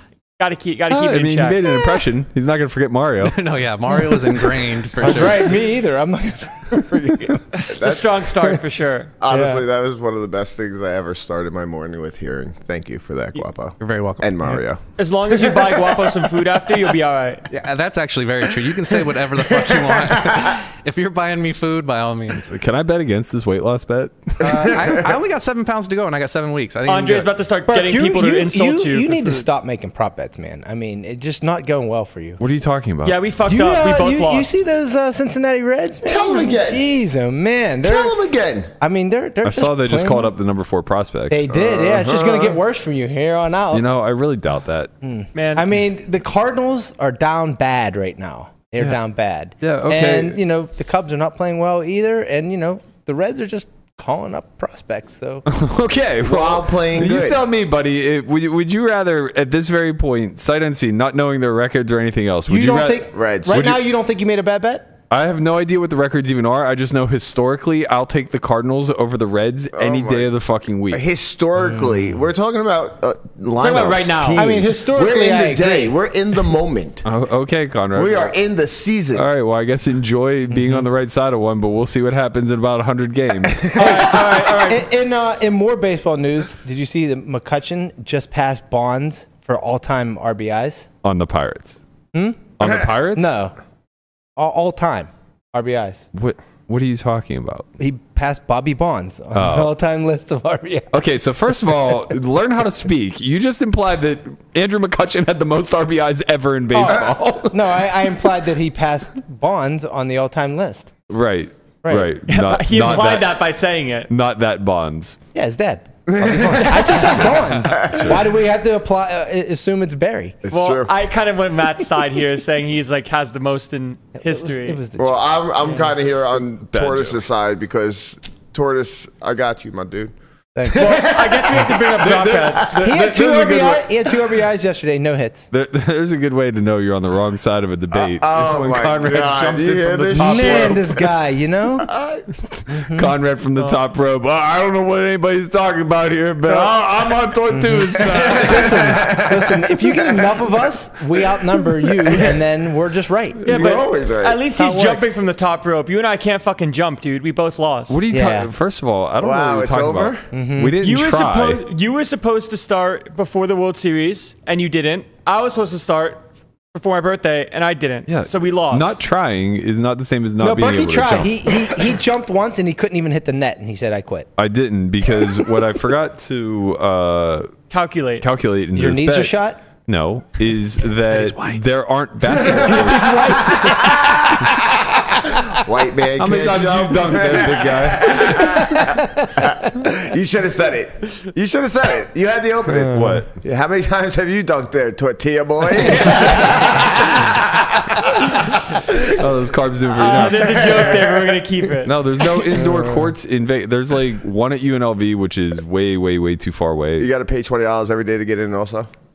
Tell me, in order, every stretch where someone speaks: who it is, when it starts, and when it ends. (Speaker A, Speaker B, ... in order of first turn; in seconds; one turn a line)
Speaker A: 0.4-1.6
Speaker B: 0.9-3.4
Speaker C: 3.2-5.5
Speaker D: 5.0-7.4
Speaker A: 7.5-9.1
Speaker E: 7.8-8.2
Speaker E: 9.2-14.8
Speaker D: 9.2-9.6
Speaker C: 13.8-14.6
Speaker A: 15.0-17.4
Speaker E: 15.3-16.1
Speaker C: 17.5-22.5
Speaker E: 19.5-20.5
Speaker B: 22.5-24.8
Speaker C: 24.4-27.3
Speaker A: 26.9-29.5
Speaker D: 27.7-32.4
Speaker B: 32.4-33.2
Speaker A: 33.0-34.5
Speaker D: 33.4-38.2
Speaker E: 36.0-36.8
Speaker E: 37.8-38.7
Speaker D: 38.8-40.3
Speaker B: 39.4-41.5
Speaker D: 41.3-43.9
Speaker E: 41.5-42.6
Speaker B: 43.7-44.9
Speaker D: 45.0-55.4
Speaker A: 45.3-45.7
Speaker B: 49.6-50.4
Speaker B: 55.5-63.8
Speaker E: 56.2-57.4
Speaker D: 62.5-64.9
Speaker E: 63.1-63.7
Speaker B: 65.1-71.0
Speaker E: 69.8-70.3
Speaker E: 70.9-77.0
Speaker D: 71.6-72.2
Speaker A: 73.6-74.4
Speaker D: 74.3-75.9
Speaker B: 77.0-78.3
Speaker E: 77.9-79.2
Speaker B: 79.1-83.8
Speaker D: 80.5-80.9
Speaker E: 83.5-84.1
Speaker A: 83.8-84.8
Speaker D: 83.8-90.9
Speaker B: 91.0-91.8
Speaker D: 92.1-93.5
Speaker B: 92.6-93.3
Speaker D: 94.3-96.1
Speaker B: 96.2-97.7
Speaker D: 97.8-101.0
Speaker B: 99.3-99.7
Speaker B: 100.9-107.8
Speaker D: 106.7-110.9
Speaker B: 111.1-113.4
Speaker D: 111.8-112.1
Speaker A: 112.3-114.1
Speaker B: 114.1-115.2
Speaker D: 115.3-120.4
Speaker E: 116.1-118.2
Speaker E: 120.4-121.0
Speaker A: 120.5-124.8
Speaker D: 124.2-125.7
Speaker E: 125.0-130.1
Speaker B: 126.3-127.2
Speaker D: 130.5-131.1
Speaker E: 130.7-132.4
Speaker A: 130.7-132.9
Speaker B: 132.0-133.9
Speaker D: 132.8-135.5
Speaker B: 135.5-140.8
Speaker E: 137.9-141.0
Speaker D: 140.1-141.9
Speaker E: 141.9-142.2
Speaker D: 142.7-143.1
Speaker B: 142.9-149.3
Speaker E: 146.5-146.8
Speaker D: 147.5-153.8
Speaker E: 148.0-150.4
Speaker E: 152.0-152.4
Speaker E: 153.4-154.5
Speaker A: 153.5-158.0
Speaker D: 154.5-155.2
Speaker B: 157.9-161.6
Speaker D: 158.1-158.5
Speaker E: 159.2-160.2
Speaker D: 160.3-160.8
Speaker A: 160.8-169.0
Speaker B: 168.1-171.5
Speaker D: 170.4-174.3
Speaker B: 174.4-177.5
Speaker A: 177.7-178.2
Speaker B: 178.2-184.5
Speaker D: 178.7-179.6
Speaker E: 182.5-184.4
Speaker D: 182.7-184.2
Speaker E: 185.4-199.1
Speaker B: 186.2-188.7
Speaker D: 188.3-189.7
Speaker B: 192.7-193.3
Speaker D: 192.8-193.2
Speaker B: 199.0-200.9
Speaker A: 200.0-201.9
Speaker E: 200.0-201.5
Speaker B: 201.8-207.1
Speaker E: 202.2-202.9
Speaker D: 202.7-203.0
Speaker E: 207.0-208.9